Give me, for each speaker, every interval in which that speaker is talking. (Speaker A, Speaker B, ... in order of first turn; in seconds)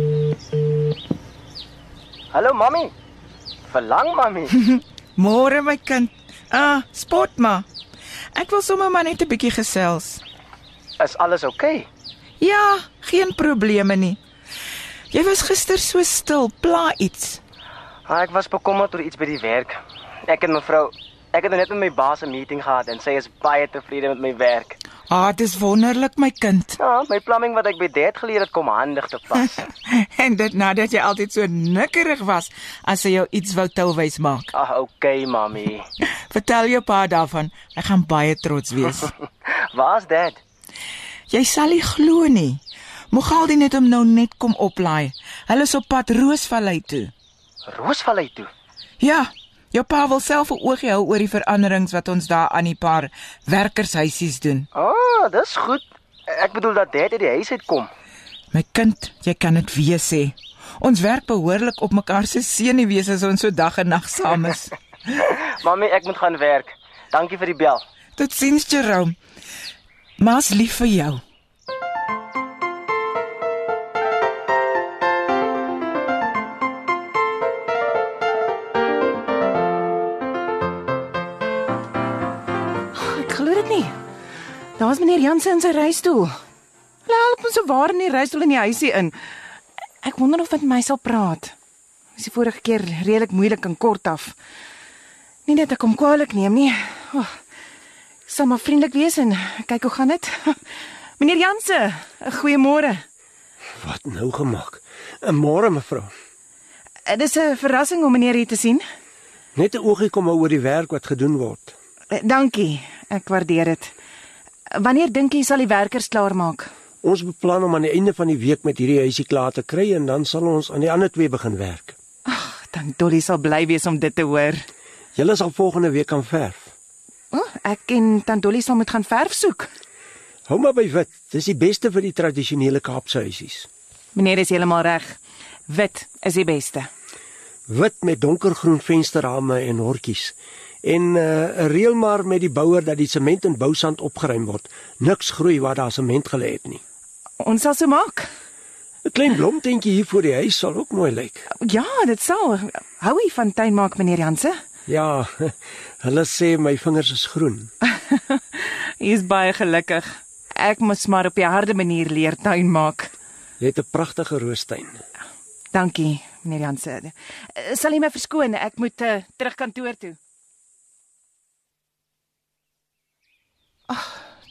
Speaker A: 2.3-2.9, 3.7-4.5, 11.0-11.9, 18.1-24.8, 26.8-29.6, 34.5-35.8, 39.5-40.4, 47.7-48.5, 54.7-57.9, 65.5-67.8
Speaker B: 4.5-7.7, 8.3-10.2, 12.4-14.2, 15.1-17.4, 25.1-26.8, 29.6-34.5, 36.3-39.1, 41.3-47.1, 49.0-54.7, 58.5-64.8, 68.2-69.2, 70.2-71.2
Speaker C: 83.0-83.9, 84.8-86.3, 87.1-89.2, 90.0-91.5, 92.2-94.4, 95.5-97.3, 98.3-100.6, 101.2-103.0, 107.1-108.8, 112.1-113.9, 114.8-116.7, 122.3-124.7, 127.3-129.7, 134.2-136.9, 147.4-148.3, 151.6-154.6, 158.1-163.1, 165.7-170.2, 173.9-174.2
Speaker D: 103.8-106.1, 109.6-111.8, 117.0-122.0, 125.2-126.7, 130.5-133.7, 137.7-146.8, 149.1-151.5, 154.9-157.7, 163.6-165.0